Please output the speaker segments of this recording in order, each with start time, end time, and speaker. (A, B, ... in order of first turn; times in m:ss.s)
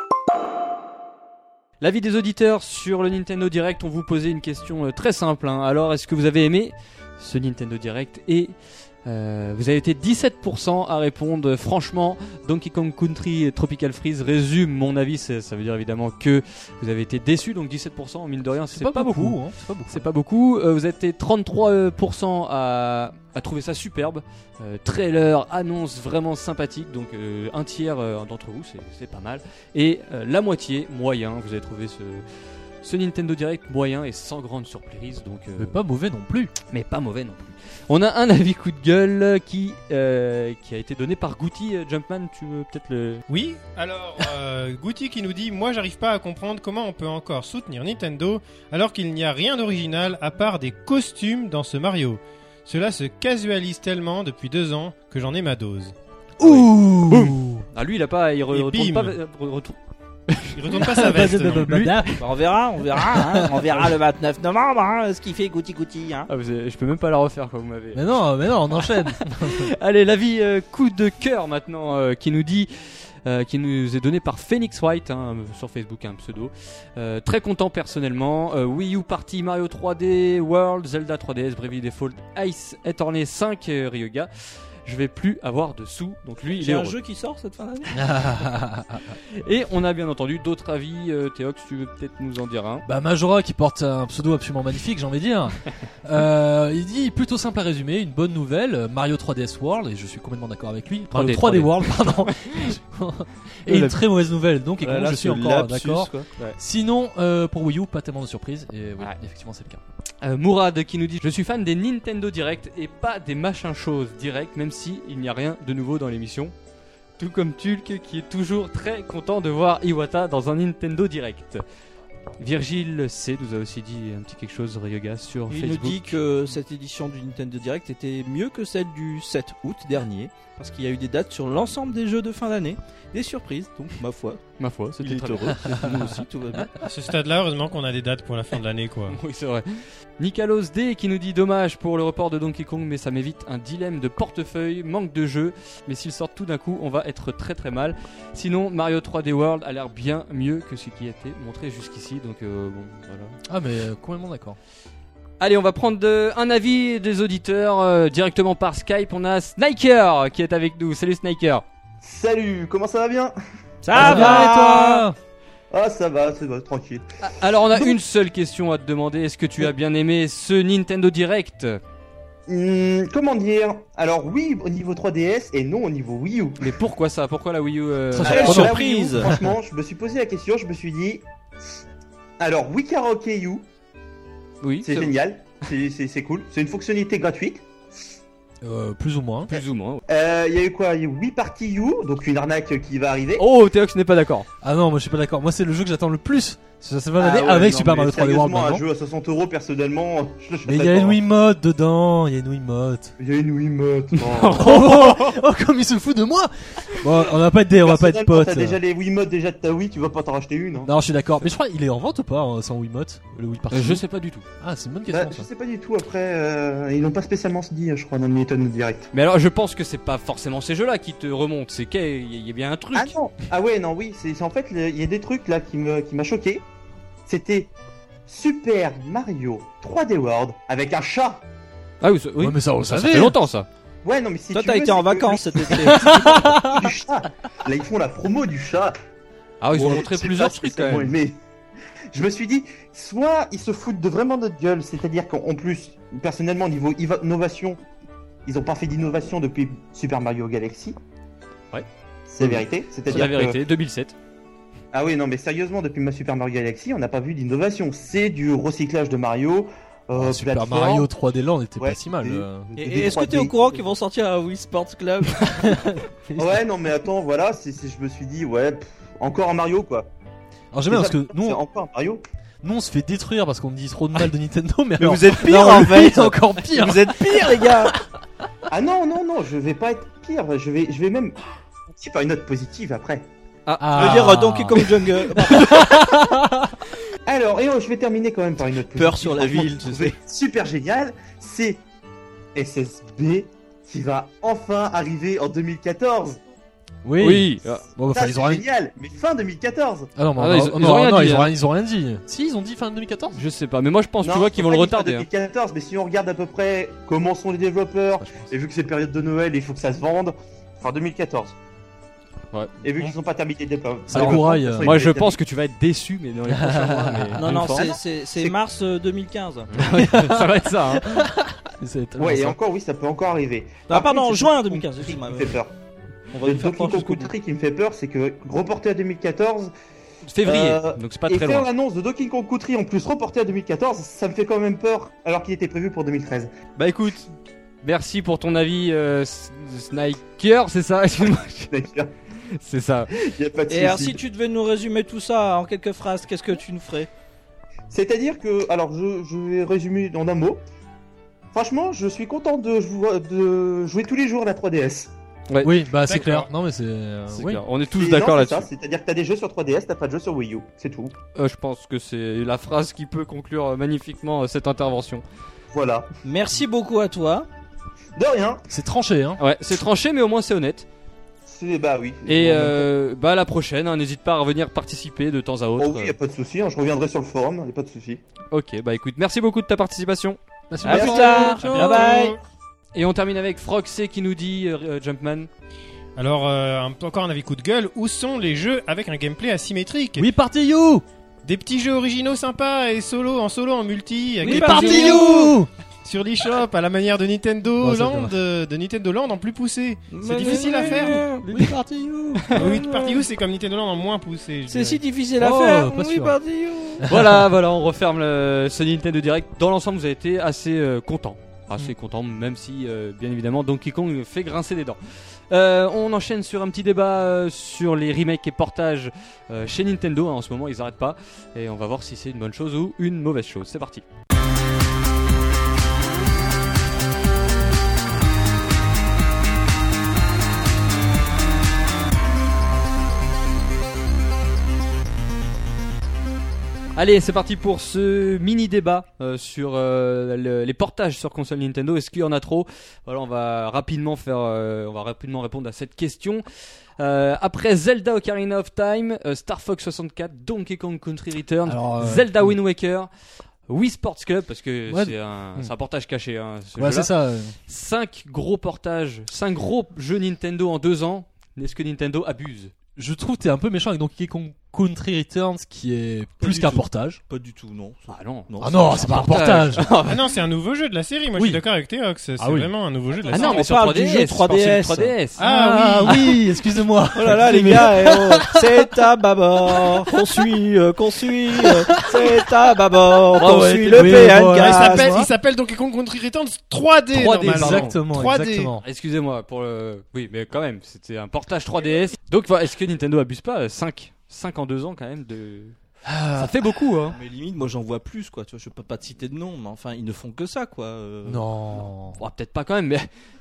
0:01.8-0:35.8 A
0:18.7-0:20.1 B
0:35.6-0:36.5 B
0:36.7-0:43.2 A
0:43.3-0:56.0 C
0:56.4-0:57.6 B
0:56.4-0:59.8 A
0:58.5-0:59.2 C
1:00.3-1:02.1 A
1:00.5-1:01.8 C
1:00.8-1:02.2 B
1:02.2-1:06.3 D
1:03.1-1:03.8 B
1:06.3-1:08.2 A
1:07.9-1:09.7 B
1:08.7-1:27.0 A
1:26.5-1:28.0 D
1:27.9-1:29.2 B
1:29.4-1:32.8 A
1:32.8-1:49.8 B
1:41.1-1:42.8 A
1:43.7-1:44.0 A
1:44.8-1:46.3 D
1:50.2-1:56.5 A
1:57.2-2:01.6 A
2:02.4-2:06.2 A
2:05.5-2:14.4 D
2:14.6-2:16.1 A
2:15.0-2:16.7 D
2:16.8-2:19.2 C
2:19.1-2:33.4 A
2:33.5-2:34.6 B
2:35.4-2:41.6 A
2:42.0-2:43.4 E
2:43.8-2:45.1 D
2:43.9-2:45.2 B
2:44.0-2:44.4 A
2:45.7-2:47.1 E
2:47.2-2:51.8 A
2:52.5-2:56.7 E
2:56.6-2:58.7 A
2:58.1-2:59.6 B
2:58.2-3:01.2 E
2:58.3-2:59.3 D
3:02.4-3:03.6 E
3:04.6-3:05.1 A
3:04.8-3:07.6 E
3:08.6-3:09.6 B
3:09.5-3:10.0 A
3:10.1-3:13.5 E
3:13.4-3:14.5 A
3:14.6-3:18.8 B
3:17.2-3:21.2 E
3:20.6-3:23.2 B
3:23.2-3:24.8 E
3:24.2-3:25.4 A
3:24.5-3:28.8 B
3:27.8-3:30.9 E
3:30.8-3:34.0 B
3:33.7-3:34.5 A
3:34.6-3:35.5 B
3:35.1-3:39.1 E
3:39.1-3:43.2 A
3:42.9-3:46.6 E
3:47.3-3:47.7 E
3:48.3-3:51.4 E
3:52.0-3:53.7 A
3:52.4-3:53.4 B
3:54.0-3:59.0 E
3:54.5-3:56.1 D
3:55.7-3:56.9 B
3:59.6-4:01.1 A
3:59.7-4:01.4 E
4:02.1-4:07.8 E
4:08.5-4:11.0 E
4:12.3-4:13.6 E
4:12.4-4:14.2 A
4:14.9-4:21.1 E
4:20.1-4:22.7 B
4:21.8-4:23.7 E
4:22.8-4:25.7 D
4:25.6-4:26.6 B
4:26.4-4:30.1 E
4:30.7-4:31.6 B
4:30.9-4:32.2 E
4:32.6-4:37.9 B
4:35.0-4:38.0 D
4:38.7-4:41.4 E
4:41.9-4:43.3 E
4:43.7-4:44.3 A
4:43.8-4:46.7 B
4:43.9-4:45.7 D
4:45.4-4:45.9 E
4:47.3-4:51.8 E
4:49.0-4:50.2 D
4:52.6-4:56.4 E
4:57.0-4:58.6 B
4:57.2-4:57.9 A
4:58.1-5:00.1 E
5:00.2-5:03.4 B
5:00.4-5:01.5 A
5:03.4-5:05.3 A
5:04.2-5:11.6 E
5:08.2-5:08.5 B
5:12.8-5:15.4 E
5:14.1-5:15.0 B
5:14.1-5:17.9 A
5:16.5-5:17.8 B
5:17.4-5:19.8 D
5:17.8-5:18.5 E
5:19.7-5:21.3 A
5:19.9-5:22.6 B
5:22.2-5:25.7 E
5:23.9-5:25.5 D
5:26.3-5:27.3 D
5:26.4-5:29.7 E
5:30.3-5:31.7 A
5:30.4-5:36.5 E
5:36.8-5:41.8 A
5:41.7-5:42.1 E
5:42.5-5:43.1 A
5:43.2-5:44.2 E
5:43.7-5:47.1 D
5:47.9-5:50.6 E
5:51.5-5:55.1 E
5:55.5-5:55.8 A
5:55.6-5:57.6 B
5:56.1-5:56.5 C
5:57.3-5:58.7 A
5:57.9-6:01.1 E
6:01.4-6:05.2 A
6:05.7-6:06.1 E
6:06.2-6:07.5 D
6:08.2-6:08.6 E
6:08.7-6:09.4 B
6:09.4-6:10.9 A
6:11.5-6:12.9 E
6:12.3-6:16.1 A
6:15.8-6:18.2 E
6:18.5-6:20.4 A
6:20.7-6:22.1 B
6:20.8-6:22.4 D
6:20.9-6:22.2 E
6:21.6-6:22.4 C
6:22.9-6:25.5 A
6:26.2-6:30.3 C
6:30.2-6:31.0 B
6:31.4-6:41.2 C
6:34.4-6:35.6 D
6:34.4-6:35.7 B
6:37.8-6:38.4 B
6:40.1-6:43.2 D
6:40.4-6:42.6 B
6:42.6-6:45.0 C
6:44.7-6:47.1 D
6:45.4-6:46.4 B
6:47.0-6:47.5 B
6:47.1-7:04.0 A
7:17.0-7:33.1 A
7:31.7-7:32.6 B
7:33.7-7:37.1 A
7:34.9-7:35.7 B
7:36.8-7:37.6 B
7:37.7-7:42.7 A
7:43.0-7:47.2 B
7:46.4-7:49.4 D
7:48.1-7:50.4 A
7:48.6-7:50.0 B
7:50.1-7:53.6 C
7:51.4-7:51.6 B
7:52.4-7:52.7 B
7:53.3-7:55.1 D
7:53.3-7:55.4 A
7:55.4-7:56.4 C
7:55.4-7:58.8 B
7:57.1-8:05.2 D
8:01.6-8:02.4 B
8:03.3-8:05.3 B
8:04.6-8:08.7 C
8:07.1-8:08.0 A
8:07.4-8:08.8 B
8:08.8-8:15.8 A
8:16.0-8:16.8 B
8:16.3-8:17.2 A
8:17.1-8:21.4 D
8:21.3-8:22.2 B
8:22.2-8:23.1 A